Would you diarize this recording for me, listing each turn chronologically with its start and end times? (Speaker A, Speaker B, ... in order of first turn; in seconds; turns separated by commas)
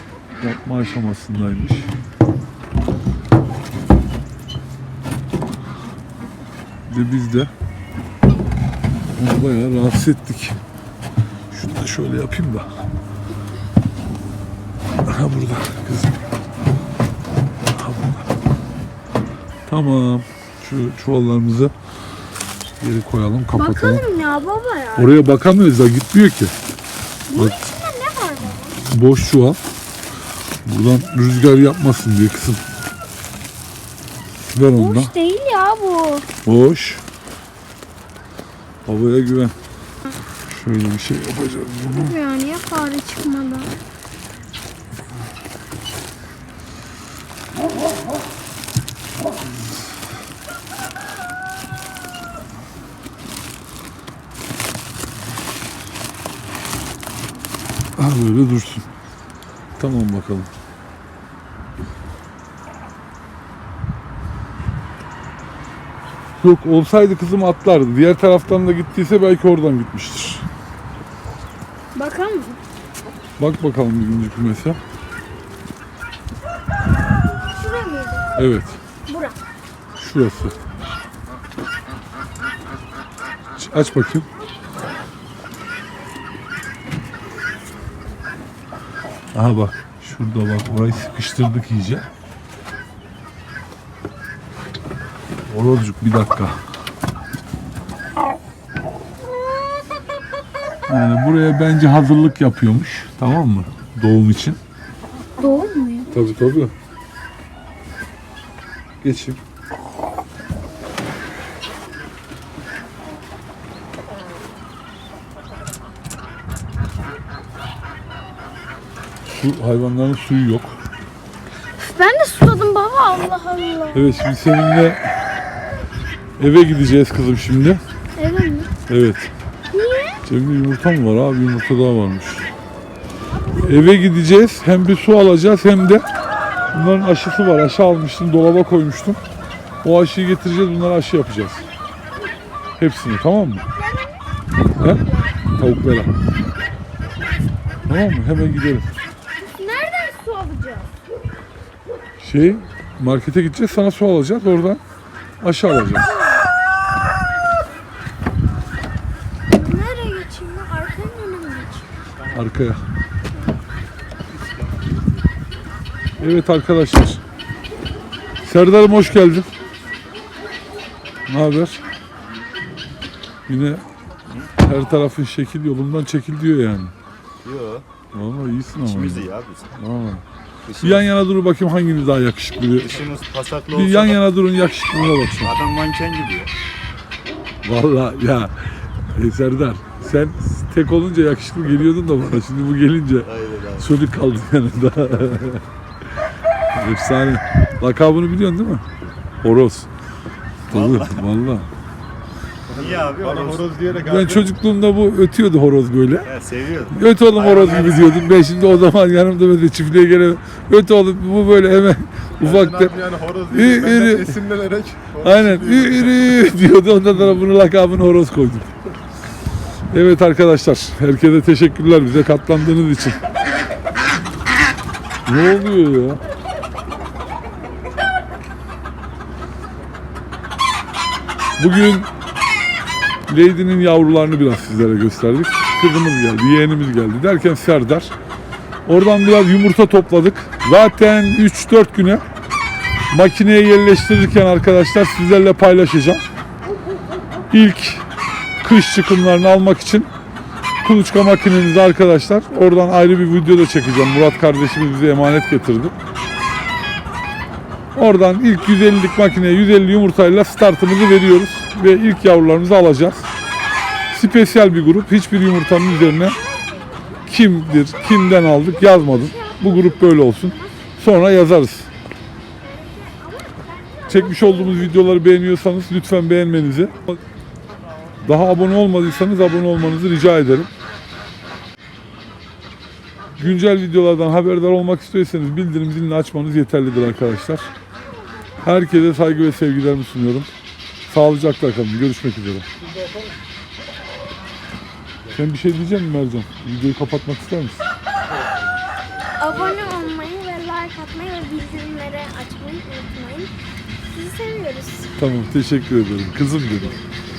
Speaker A: 0.4-1.9, Speaker A: 6.9-7.5, Speaker A: 9.1-10.6, Speaker A: 11.5-12.7, Speaker A: 15.0-16.2, Speaker A: 17.7-18.3, Speaker A: 19.7-21.7, Speaker A: 22.8-24.1, Speaker B: 23.5-25.2, Speaker A: 24.9-26.5, Speaker B: 27.3-28.8, Speaker A: 27.3-27.6, Speaker A: 28.8-29.6, Speaker A: 30.6-32.6, Speaker A: 34.5-35.1, Speaker B: 34.7-36.3, Speaker A: 36.4-37.0, Speaker A: 38.9-39.5, Speaker A: 40.4-42.2, Speaker B: 41.9-43.7, Speaker A: 58.0-58.9, Speaker A: 59.8-60.5, Speaker A: 66.4-70.5, Speaker B: 71.9-72.6, Speaker A: 73.4-74.8, Speaker B: 77.5-78.2, Speaker A: 78.3-78.8, Speaker B: 79.1-79.4, Speaker A: 80.0-80.6, Speaker A: 83.6-84.3, Speaker A: 89.3-92.1, Speaker A: 95.5-96.6, Speaker A: 100.9-104.6, Speaker B: 105.4-106.1, Speaker A: 106.1-106.7, Speaker A: 109.0-109.4, Speaker A: 119.3-120.8, Speaker B: 121.8-124.2, Speaker A: 123.9-125.0, Speaker A: 126.4-127.8, Speaker B: 128.2-128.7, Speaker A: 128.9-129.3, Speaker B: 129.7-130.2, Speaker A: 130.2-132.5, Speaker A: 133.6-136.0, Speaker A: 136.7-139.2, Speaker A: 139.8-141.7, Speaker A: 142.8-143.7, Speaker B: 143.8-144.2, Speaker A: 144.8-146.1, Speaker B: 144.8-145.3, Speaker A: 147.8-148.9, Speaker B: 149.5-150.9, Speaker A: 152.2-154.8, Speaker A: 155.4-156.2, Speaker B: 156.1-156.4, Speaker B: 159.5-161.9, Speaker A: 162.3-162.8, Speaker A: 166.2-167.2, Speaker A: 168.4-169.5, Speaker A: 171.3-171.8, Speaker A: 173.5-173.8, Speaker A: 174.5-176.9, Speaker C: 177.4-177.8, Speaker A: 178.1-180.2, Speaker C: 178.8-179.7, Speaker C: 180.7-181.1, Speaker A: 180.8-183.0, Speaker C: 182.7-184.2, Speaker A: 183.7-185.6, Speaker C: 185.4-186.5, Speaker A: 187.6-195.6, Speaker C: 193.2-193.9, Speaker A: 196.7-198.8, Speaker A: 199.4-199.9, Speaker A: 200.7-201.7, Speaker C: 200.7-201.3, Speaker C: 202.7-203.8, Speaker D: 202.7-204.5, Speaker A: 203.9-206.3, Speaker C: 206.2-207.0, Speaker A: 206.9-214.4, Speaker D: 212.4-216.4, Speaker A: 215.2-218.8, Speaker A: 219.9-223.2, Speaker A: 225.2-226.2, Speaker A: 231.6-232.1, Speaker A: 233.3-238.1, Speaker A: 238.8-242.2, Speaker A: 243.1-246.3, Speaker A: 247.5-248.0, Speaker A: 248.6-250.1, Speaker A: 250.8-255.9, Speaker A: 257.9-263.3, Speaker A: 264.1-266.4, Speaker B: 265.8-267.2, Speaker A: 267.2-271.9, Speaker B: 268.2-270.8, Speaker B: 272.6-275.1, Speaker A: 274.1-277.2, Speaker A: 278.2-280.7, Speaker A: 283.4-287.7, Speaker A: 288.6-290.5, Speaker A: 291.1-292.7, Speaker A: 295.3-297.8, Speaker B: 299.4-303.5, Speaker B: 304.1-305.1, Speaker A: 305.1-307.0